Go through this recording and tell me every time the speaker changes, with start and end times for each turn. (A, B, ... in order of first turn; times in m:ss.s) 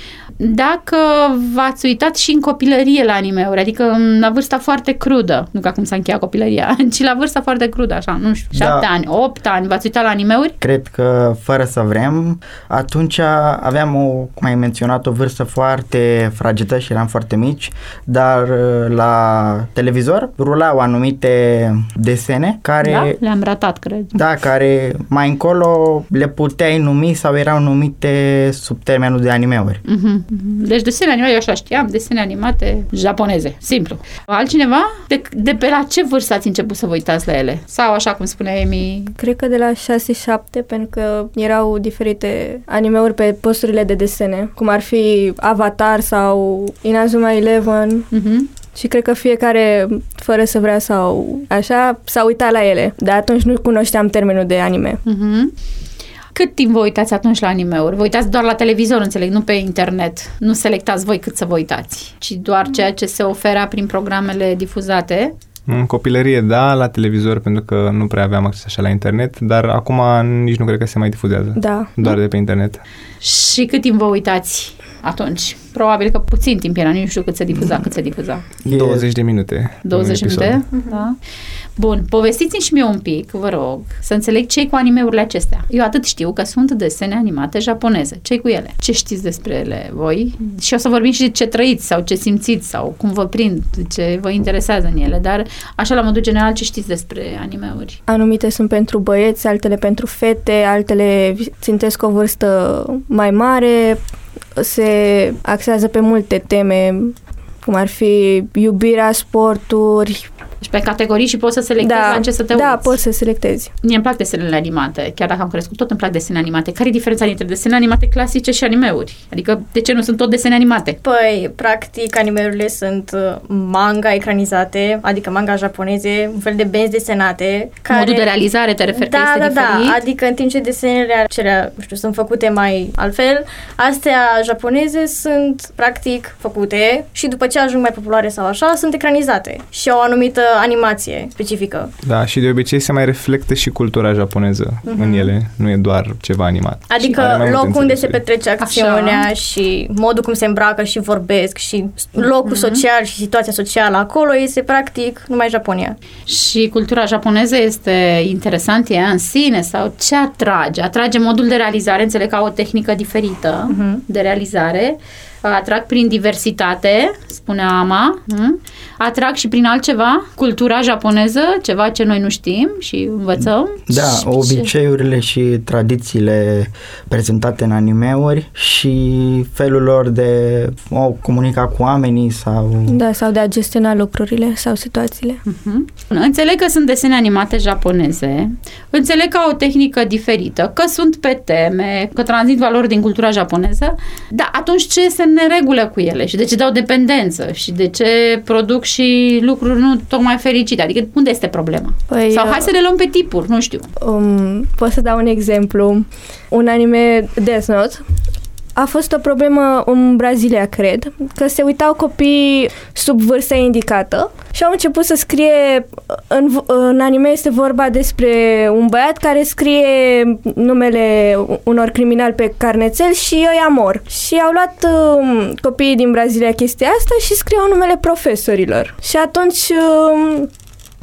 0:00.4-0:10.6 A
0:08.6-0:08.9 B
0:10.6-0:23.2 B
0:22.8-0:24.2 A
0:24.1-0:29.8 B
0:29.9-0:39.2 A
0:39.2-0:48.1 C
0:48.1-0:48.5 A
0:48.8-0:55.0 C
0:55.0-0:55.5 A
0:56.3-1:05.3 A
1:05.7-1:12.8 D
1:11.6-1:11.9 C
1:13.2-1:18.4 A
1:18.6-1:19.1 B
1:18.7-1:20.6 D
1:19.8-1:21.2 A
1:20.8-1:21.0 E
1:21.8-1:38.0 A
1:38.1-1:44.0 C
1:44.6-1:50.3 C
1:50.6-1:53.0 A
1:51.8-1:53.7 C
1:53.8-2:01.0 A
2:01.0-2:08.3 E
2:07.9-2:10.0 A
2:09.0-2:21.9 E
2:22.0-2:28.2 D
2:24.9-2:25.3 E
2:26.9-2:36.0 E
2:28.6-2:29.3 A
2:32.4-2:32.8 A
2:36.3-2:54.7 A
2:43.7-2:44.0 E
2:53.9-3:03.0 B
3:02.9-3:05.4 C
3:05.5-3:23.9 A
3:22.1-3:22.7 C
3:24.0-3:28.0 C
3:28.8-3:50.5 C